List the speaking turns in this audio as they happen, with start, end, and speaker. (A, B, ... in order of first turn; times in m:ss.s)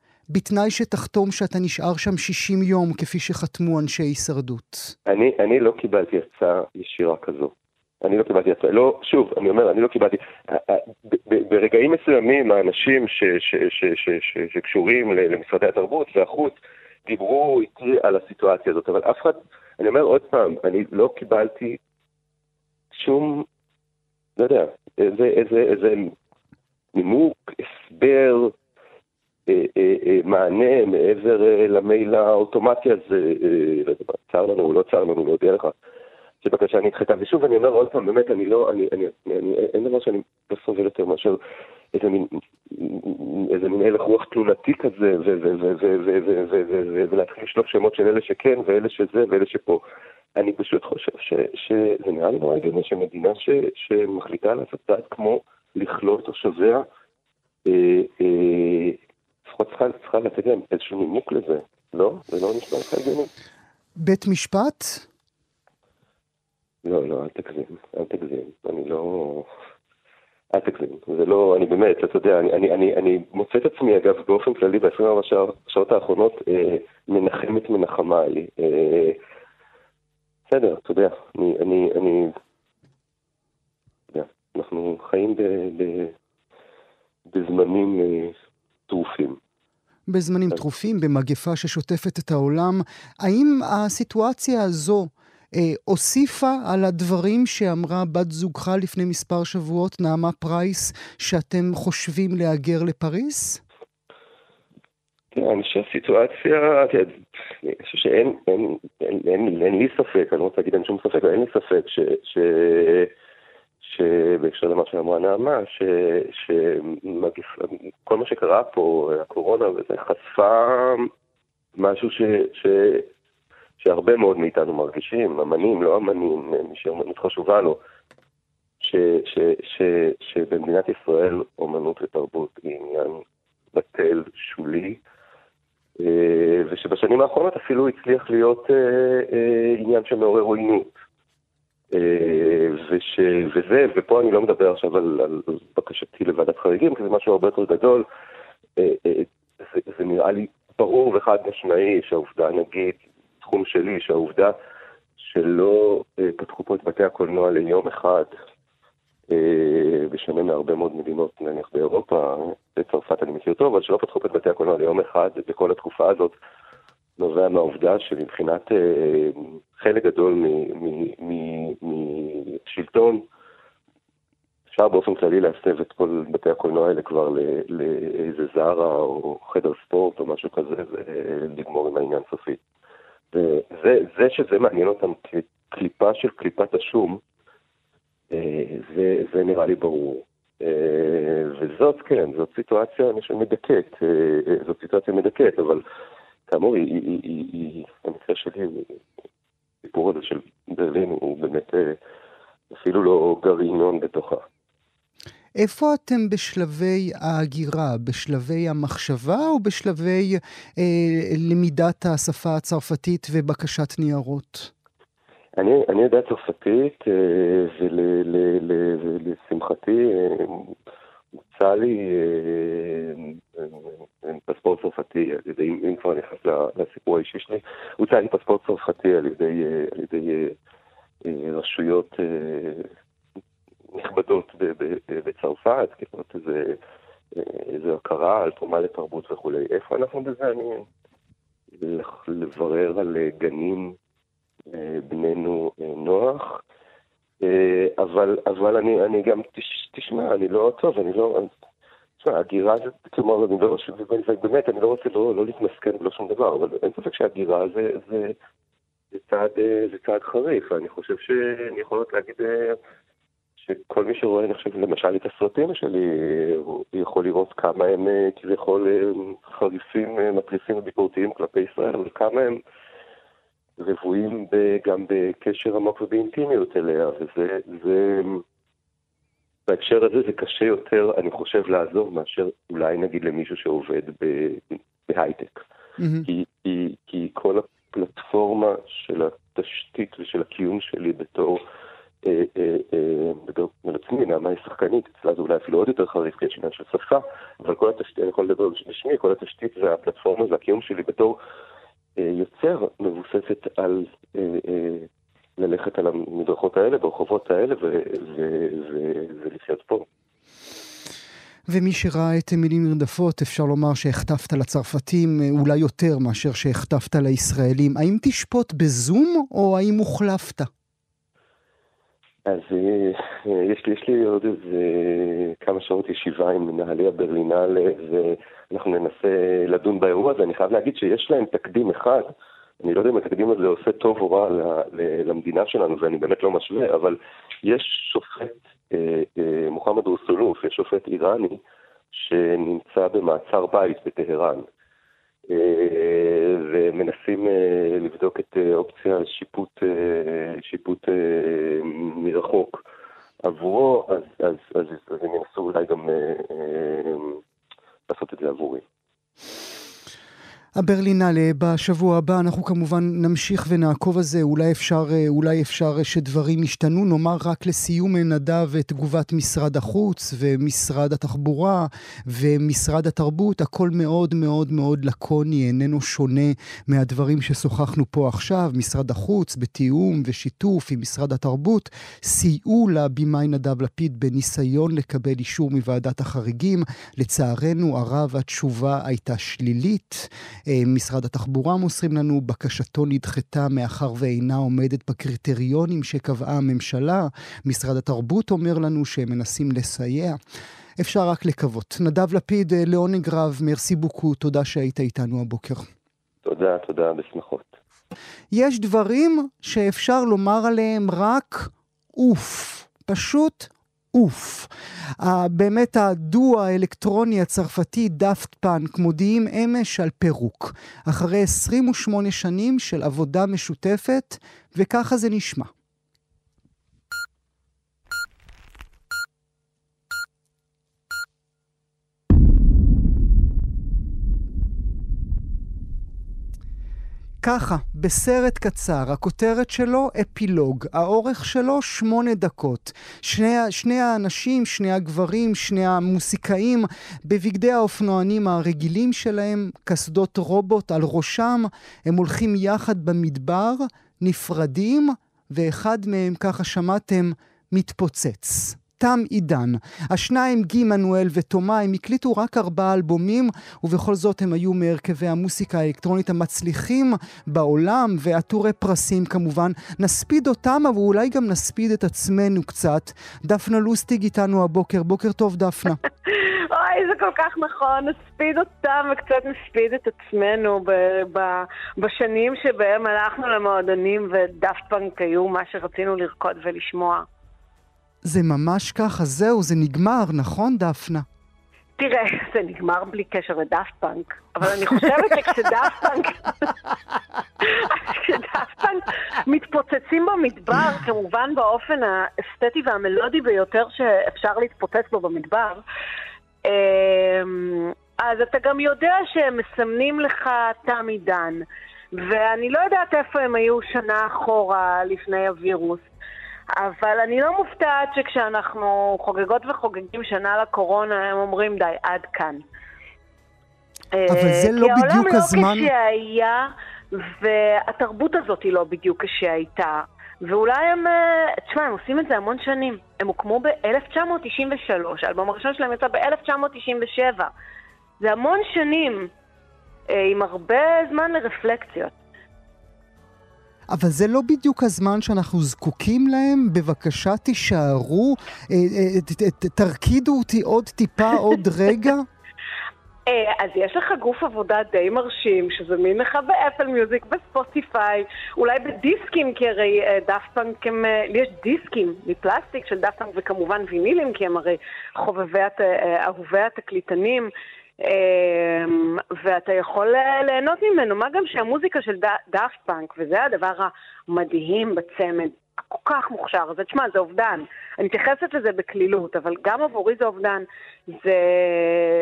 0:00.3-0:05.0 A
0:05.1-0:21.8 B
0:22.9-0:23.5 B
0:24.4-0:26.1 B
0:26.9-0:28.5 B
0:29.5-0:35.7 B
0:36.4-0:41.4 B
0:41.9-0:49.8 B
0:50.4-0:56.8 B
0:57.7-1:03.3 B
1:04.0-1:05.1 A
1:06.8-1:09.5 B
1:10.5-1:19.2 B
1:20.5-1:22.3 B
1:24.1-1:26.1 B
1:27.3-1:28.3 B
1:28.9-1:29.4 B
1:30.1-1:43.6 A
1:45.3-1:53.1 B
1:53.8-2:01.1 B
2:01.8-2:03.1 B
2:03.8-2:07.8 B
2:08.8-2:13.2 B
2:13.7-2:15.0 B
2:16.0-2:20.9 B
2:21.9-2:28.0 B
2:28.8-2:34.5 B
2:35.2-2:38.3 B
2:39.3-2:46.4 B
2:47.2-2:53.2 B
2:54.7-3:02.6 B
3:03.3-3:07.2 B
3:08.3-3:15.8 B
3:16.5-3:19.0 B
3:19.8-3:22.0 B
3:22.7-3:24.4 B
3:25.6-3:34.7 A
3:35.6-3:40.7 B
3:41.4-3:50.6 B
3:51.2-3:52.9 B
3:53.9-3:56.8 B
3:57.4-4:00.9 B
4:01.8-4:04.0 B
4:04.7-4:06.6 B
4:07.4-4:11.5 B
4:12.2-4:18.4 B
4:19.1-4:22.8 B
4:23.6-4:32.6 B
4:33.8-4:38.4 B
4:39.7-4:45.6 B
4:46.0-4:46.3 A
4:46.2-4:51.6 B
4:52.2-5:01.4 B
5:02.2-5:10.1 B
5:11.7-5:20.7 A
5:22.5-5:32.3 B
5:32.8-5:41.6 B
5:42.1-5:44.7 B
5:45.5-5:52.8 B
5:53.4-5:57.4 B
5:58.1-5:58.8 B
6:00.8-6:40.4 A
6:41.0-6:45.9 A
6:46.4-6:47.7 B
6:48.5-7:05.7 A
7:17.4-7:56.0 A
7:56.7-8:01.5 C
8:02.0-8:07.2 C
8:08.2-8:11.2 A
8:12.0-8:16.3 C
8:18.1-8:25.8 C
8:26.7-8:31.6 C
8:32.2-8:36.0 C
8:36.8-8:42.6 C
8:44.2-8:46.6 C
8:44.3-8:45.9 A
8:47.2-8:51.1 C
8:51.7-8:57.5 C
8:58.2-8:59.3 C
9:00.1-9:02.1 C
9:03.9-9:12.3 A
9:13.3-9:27.4 C
9:28.1-9:28.8 C
9:29.4-9:35.5 C
9:36.1-9:40.6 C
9:41.2-9:41.8 C